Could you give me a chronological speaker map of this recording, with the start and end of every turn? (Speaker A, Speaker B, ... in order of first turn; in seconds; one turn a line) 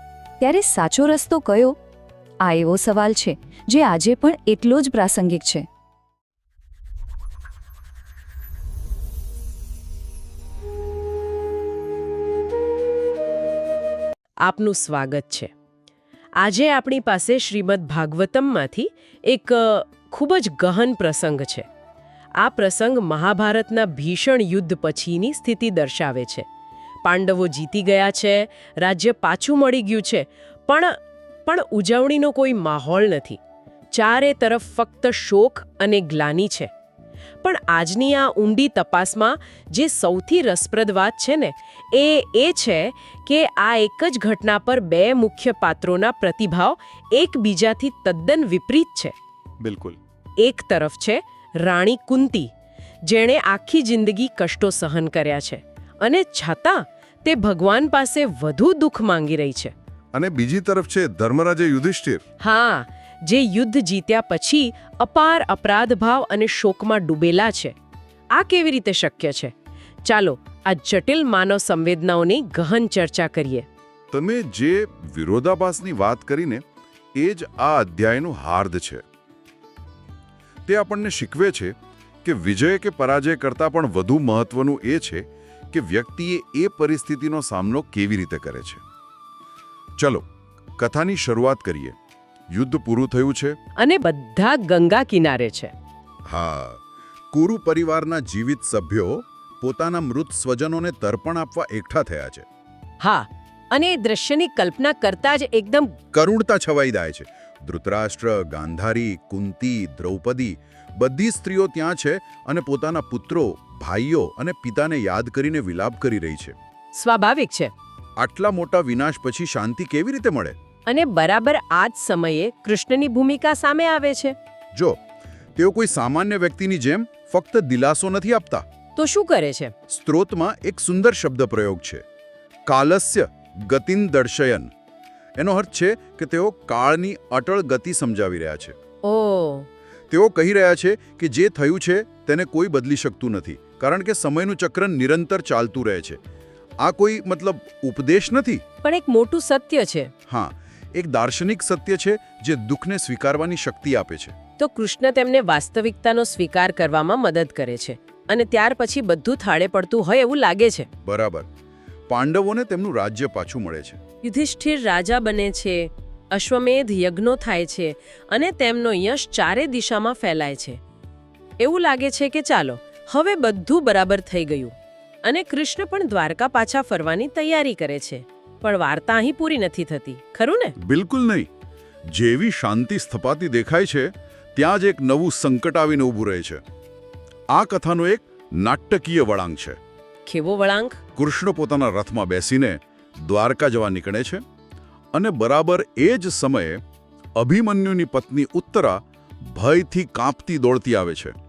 Speaker A: 0.4-1.8
Speaker A: 2.4-5.7
Speaker B: 14.4-15.5
Speaker B: 16.4-21.7
Speaker B: 22.4-26.4
Speaker B: 27.0-33.4
Speaker B: 33.9-36.7
Speaker B: 37.4-49.1
Speaker C: 49.6-50.0
Speaker B: 50.4-52.5
Speaker B: 53.0-59.7
Speaker C: 60.1-62.2
Speaker B: 62.4-67.8
Speaker B: 68.3-73.7
Speaker C: 74.1-76.6
Speaker C: 77.1-79.0
Speaker C: 80.7-88.8
Speaker C: 90.0-90.2
Speaker C: 90.8-92.0
Speaker C: 92.5-93.6
Speaker B: 93.8-95.7
Speaker C: 96.3-102.5
Speaker B: 103.0-105.9
Speaker C: 106.1-116.5
Speaker B: 116.9-117.7
Speaker C: 118.2-120.6
Speaker B: 120.9-124.3
Speaker C: 124.7-125.0
Speaker C: 125.5-128.7
Speaker B: 128.9-129.7
Speaker C: 129.9-132.0
Speaker C: 132.7-134.7
Speaker C: 135.4-138.8
Speaker B: 139.0-139.7
Speaker C: 140.1-146.2
Speaker C: 146.8-148.6
Speaker B: 148.8-150.1
Speaker C: 150.3-154.3
Speaker B: 154.6-160.9
Speaker C: 161.0-161.5
Speaker C: 162.1-164.0
Speaker B: 164.2-170.8
Speaker B: 171.6-180.8
Speaker C: 180.8-181.5
Speaker C: 182.1-186.6
Speaker C: 187.5-189.8
Speaker B: 190.2-191.0
Speaker C: 191.2-194.4
Speaker C: 195.1-196.8
Speaker C: 197.3-201.3